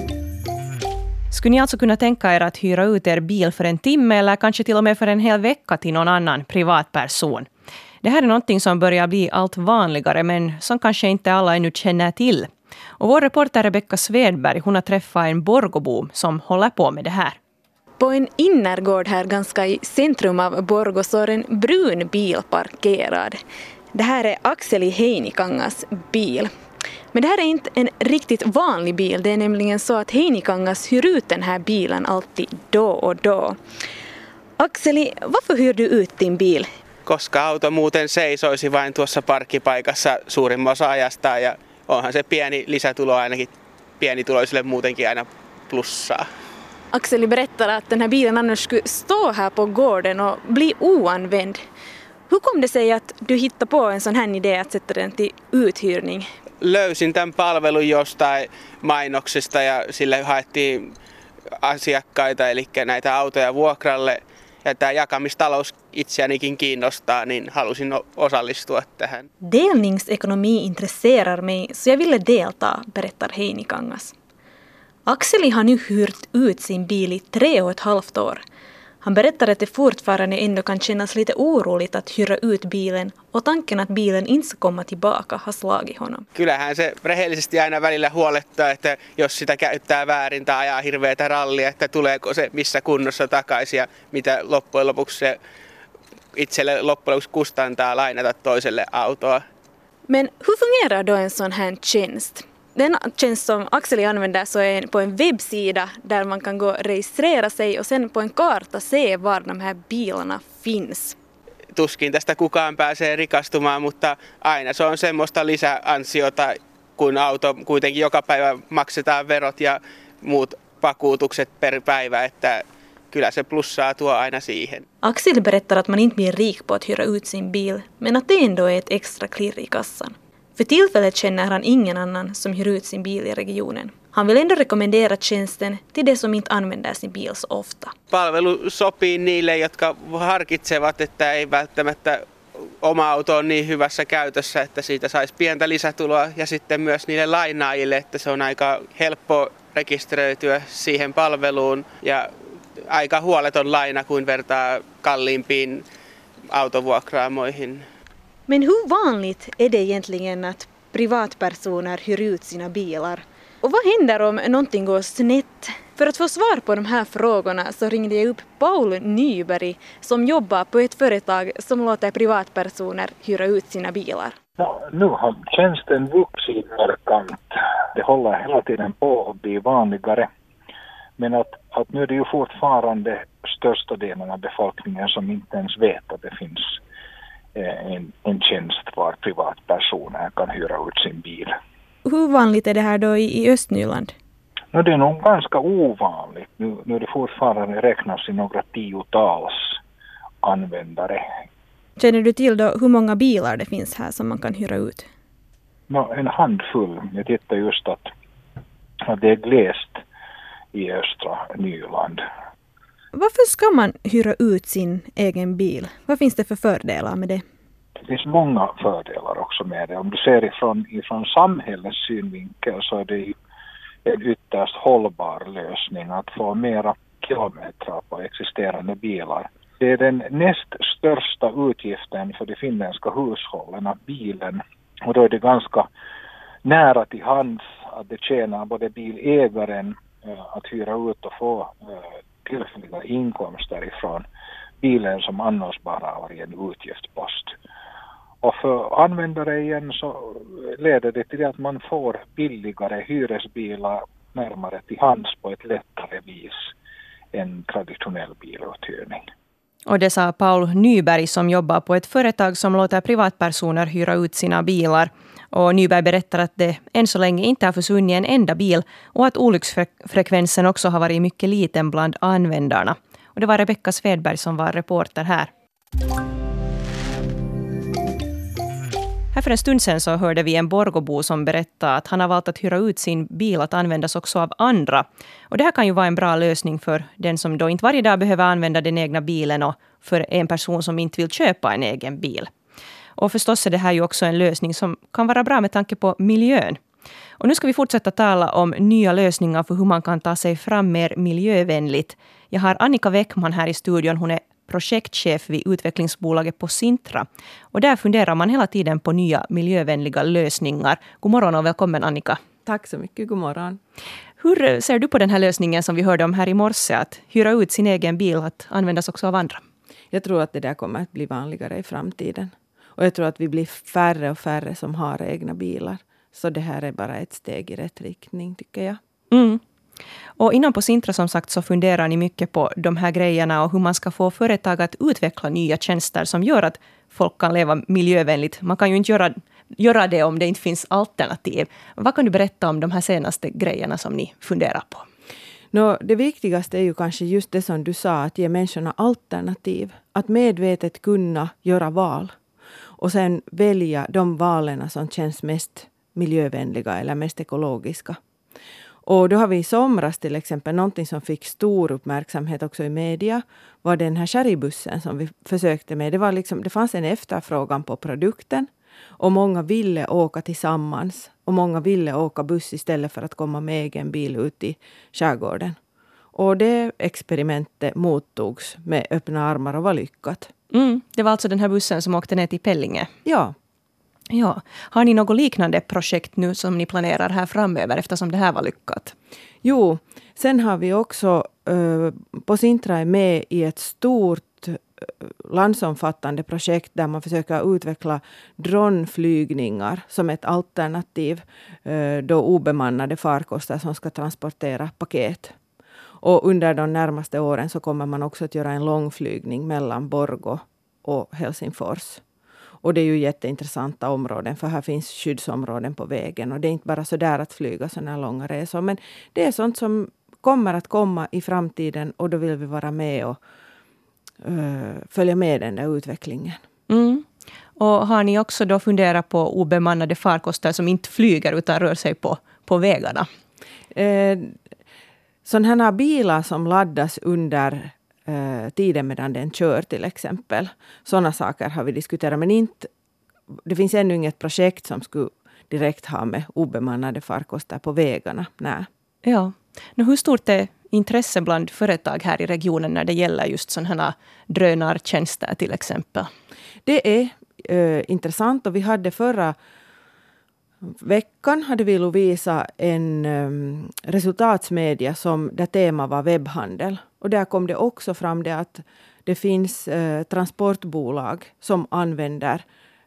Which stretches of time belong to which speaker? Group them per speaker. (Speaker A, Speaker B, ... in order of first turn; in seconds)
Speaker A: 1.3-7.5, 8.0-17.4, 259.9-275.5, 279.3-292.5, 293.2-296.8, 297.4-312.4, 314.4-319.6, 329.3-329.6, 330.4-345.0, 380.7-383.1, 384.3-389.1, 426.9-427.2, 427.8-433.2, 449.2-456.3
Speaker B: 18.0-23.4, 23.9-26.5, 27.1-33.5, 34.6-36.6, 46.9-51.6, 52.3-56.2, 69.4-74.1, 75.1-78.4, 79.0-86.2, 100.1-111.1, 125.0-137.9, 158.5-174.3, 192.1-194.1, 202.0-205.0, 213.2-217.4
Speaker C: 37.0-46.3, 56.6-60.9, 61.6-69.3, 86.3-95.4, 96.3-99.4, 111.7-124.8, 138.1-142.2, 142.8-152.3, 152.8-155.8, 156.5-157.8
Speaker D: 174.6-177.4, 177.9-180.3, 181.2-186.8, 187.5-191.5, 194.7-199.7, 200.4-201.2, 205.9-208.1, 209.1-210.0, 210.7-212.2, 218.1-223.3, 224.0-235.9, 236.6-241.8, 242.4-244.2, 244.8-247.5, 248.4-256.7, 257.3-259.2
Speaker E: 312.6-313.8, 320.1-329.0, 345.7-352.3, 353.0-358.2, 359.0-375.8, 376.3-380.5, 383.2-383.5, 389.6-405.5, 406.2-412.2, 412.8-423.4, 424.4-426.6, 433.9-434.5, 435.4-442.9, 443.6-448.9, 456.8-459.6, 460.8-472.6